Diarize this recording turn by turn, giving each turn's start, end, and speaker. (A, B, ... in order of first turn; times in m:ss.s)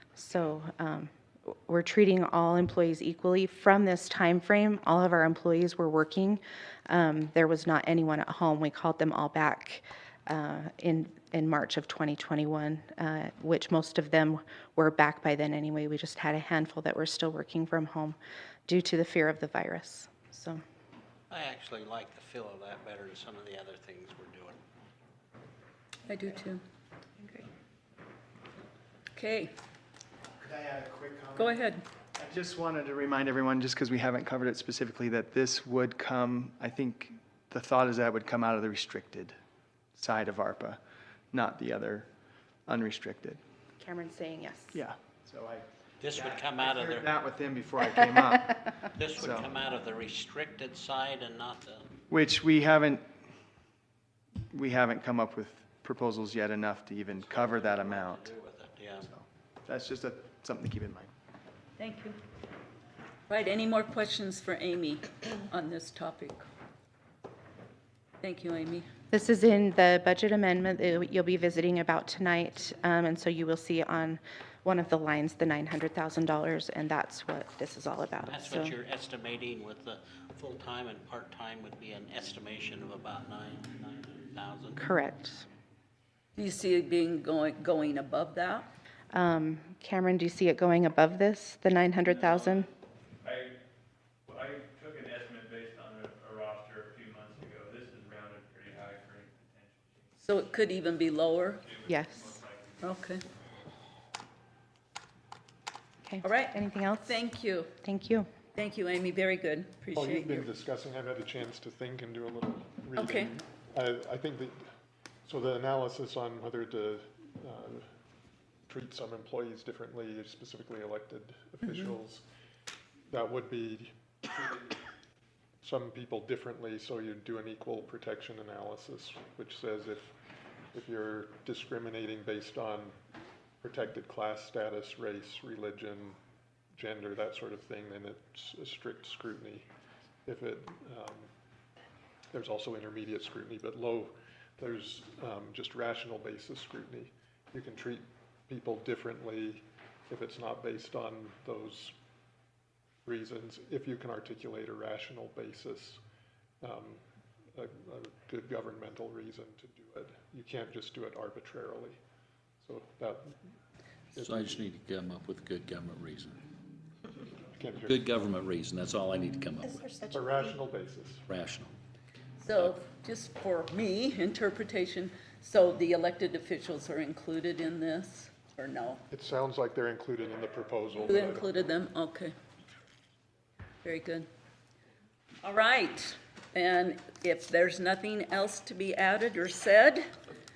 0:00.2-0:20.6 A
0:21.3-0:24.6 B
0:26.1-0:26.6 C
0:29.1-0:29.5 C
0:30.4-0:31.6 D
0:31.4-0:31.8 C
0:32.1-0:39.4 D
0:39.9-0:40.8 D
0:41.3-0:42.1 D
0:42.7-0:43.4 D
0:43.8-0:44.8 A
0:44.7-0:49.5 D
0:46.0-0:47.1 B
0:48.9-0:51.9 B
0:52.1-0:53.1 D
0:54.5-0:58.3 D
0:57.2-0:59.1 B
0:59.1-1:01.1 D
1:01.8-1:02.2 C
1:03.3-1:06.4 C
1:08.2-1:08.9 C
1:09.1-1:18.7 A
1:18.3-1:24.8 B
1:24.8-1:25.4 A
1:26.4-1:28.7 C
1:29.1-1:32.7 A
1:33.2-1:33.5 E
1:34.3-1:40.2 E
1:40.2-1:41.6 C
1:41.6-1:43.0 E
1:41.8-1:42.4 A
1:42.8-1:43.2 C
1:46.0-1:47.2 A
1:46.2-1:47.7 C
1:47.8-1:48.3 A
1:48.6-1:50.5 C
1:49.9-1:54.7 F
1:53.0-1:53.3 C
1:55.2-1:57.9 F
1:58.7-2:02.2 F
2:03.1-2:04.6 F
2:05.6-2:10.1 F
2:10.7-2:12.9 F
2:13.6-2:16.2 F
2:16.8-2:19.7 F
2:20.2-2:21.3 F
2:22.3-2:31.9 F
2:33.0-2:36.0 F
2:36.6-2:37.0 F
2:37.5-2:42.0 F
2:42.6-2:43.4 F
2:44.2-2:44.5 F
2:44.2-2:46.4 G
2:47.6-2:48.0 F
2:47.8-2:49.9 G
2:50.1-2:51.2 F
2:51.3-2:51.7 G
2:52.4-2:59.0 C
2:52.5-2:52.8 G
2:59.1-3:01.5 F
3:01.0-3:02.3 C
3:03.8-3:04.3 C
3:05.4-3:10.1 C